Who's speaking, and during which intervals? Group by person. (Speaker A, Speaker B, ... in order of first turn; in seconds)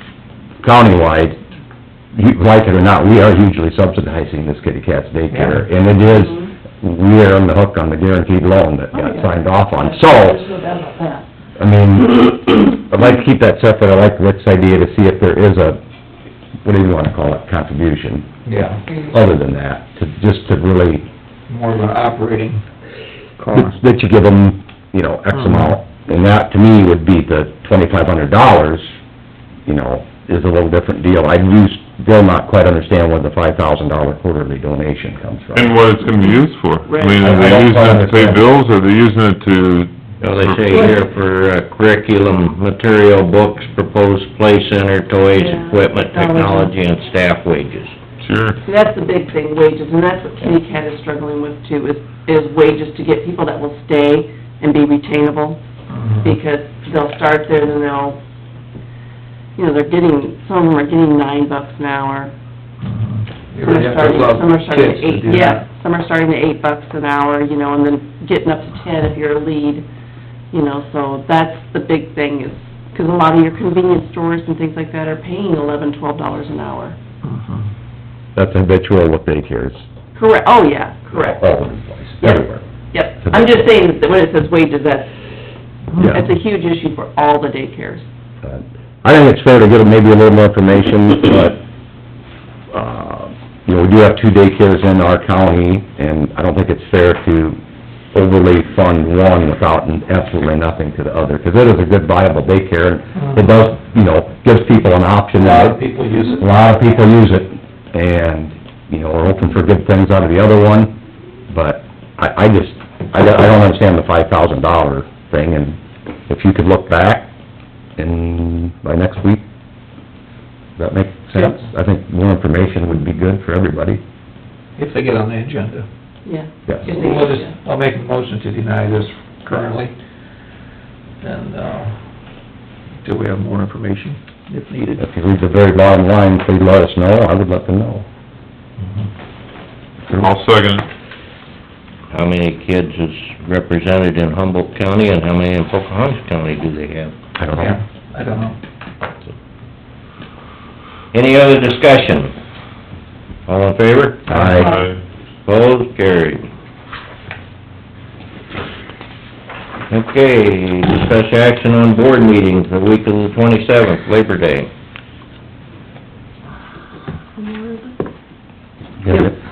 Speaker A: 0.6-1.4, 2.1-10.5, 11.6-15.8, 16.6-18.4, 19.0-21.1, 23.5-28.9, 29.7-35.8, 37.2-38.5, 78.4-79.8, 81.1-82.7, 83.2-83.7, 86.0-86.3, 88.4-91.6, 92.7-97.6, 98.1-105.8, 106.4-111.0, 111.5-117.3, 118.0-119.4, 120.8-124.0, 126.7-127.0, 135.0-138.1, 147.4-147.8, 154.3-154.8, 169.0-169.3
Speaker B: 5.3-5.7, 18.4-18.9, 21.5-22.6, 23.4-23.7, 25.3-25.8, 55.9-56.4, 62.8-65.7, 77.2-77.7, 103.2-103.5, 105.3-106.5, 124.8-125.9, 126.8-129.9, 131.2-132.0, 133.0-135.0, 147.5-148.6, 154.3-154.6
Speaker C: 6.2-6.5, 8.9-11.2, 36.9-37.4, 45.3-46.7, 48.6-55.6, 56.2-58.2, 59.6-62.3, 63.6-69.9, 70.5-77.0, 80.2-81.4, 82.2-85.1, 86.0-88.1, 126.2-127.5
Speaker D: 35.5-40.8, 48.2-48.6, 140.2-140.9, 154.6-155.0
Speaker E: 40.2-48.0, 142.1-147.2, 151.1-152.3, 153.5-154.3, 155.4-156.5, 159.9-164.7